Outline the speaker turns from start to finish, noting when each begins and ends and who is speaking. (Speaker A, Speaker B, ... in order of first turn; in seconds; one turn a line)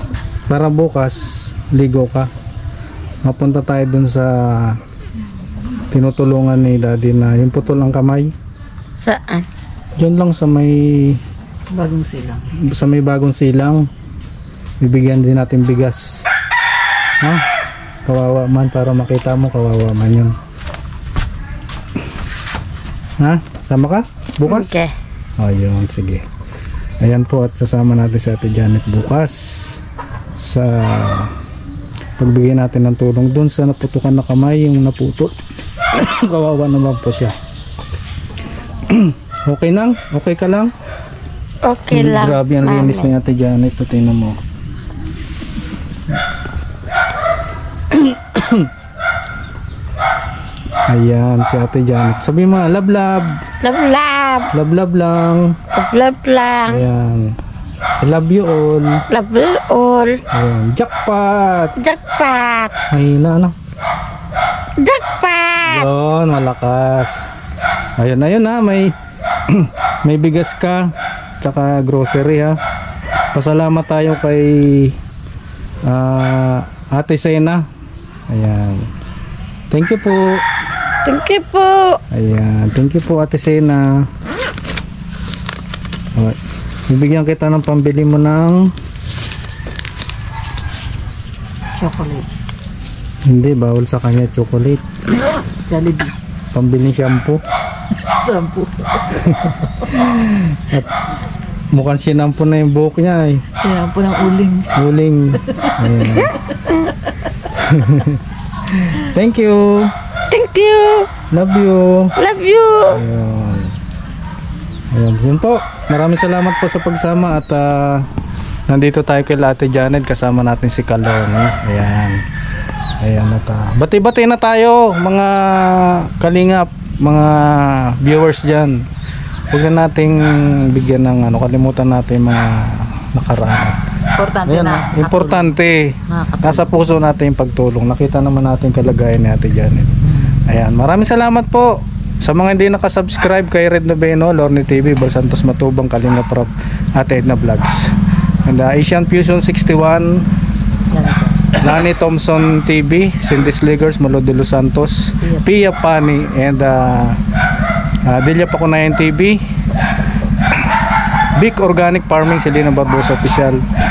Speaker A: 0.5-2.3
Speaker A: 3.2-4.8
Speaker A: 5.9-8.3
Speaker B: 9.0-9.5
Speaker A: 10.0-11.2
Speaker C: 11.7-12.5
Speaker A: 12.5-13.9
Speaker A: 14.8-16.3
Speaker A: 18.1-20.4
Speaker A: 23.2-24.8
Speaker B: 24.4-24.9
Speaker A: 25.4-26.2
Speaker A: 27.0-29.8
Speaker A: 30.4-31.3
Speaker A: 32.2-35.4
Speaker A: 35.9-37.4
Speaker A: 38.9-40.7
Speaker B: 41.7-43.1
Speaker A: 41.9-44.4
Speaker A: 47.9-48.7
Speaker A: 50.9-53.4
Speaker B: 53.6-54.5
Speaker A: 54.5-55.6
Speaker B: 55.7-56.9
Speaker A: 56.7-57.3
Speaker A: 58.0-59.0
Speaker B: 59.1-60.2
Speaker A: 60.3-61.8
Speaker B: 61.8-62.8
Speaker A: 62.9-63.5
Speaker B: 64.8-65.9
Speaker A: 65.6-67.2
Speaker A: 68.0-68.9
Speaker A: 69.5-70.9
Speaker A: 71.4-72.6
Speaker A: 73.3-75.0
Speaker A: 75.9-77.6
Speaker A: 78.3-78.9
Speaker A: 79.7-80.4
Speaker B: 81.0-82.0
Speaker A: 82.1-84.1
Speaker A: 86.9-88.6
Speaker C: 91.8-92.3
Speaker A: 93.3-94.8
Speaker C: 95.7-96.1
Speaker A: 96.5-97.4
Speaker C: 98.0-99.0
Speaker A: 99.1-100.9
Speaker A: 101.7-103.4
Speaker C: 103.6-104.8
Speaker A: 104.7-106.3
Speaker A: 107.4-109.9
Speaker B: 110.3-111.1
Speaker A: 111.3-112.2
Speaker B: 112.2-113.0
Speaker A: 112.9-113.8
Speaker A: 114.9-118.1
Speaker A: 118.7-122.2
Speaker A: 123.0-128.8
Speaker A: 129.5-133.8
Speaker C: 134.2-135.6
Speaker A: 134.4-141.7
Speaker C: 136.1-136.7
Speaker A: 142.2-147.8
Speaker A: 148.4-150.3
Speaker C: 150.9-151.8
Speaker A: 151.6-157.2
Speaker A: 158.1-159.4
Speaker A: 161.4-163.6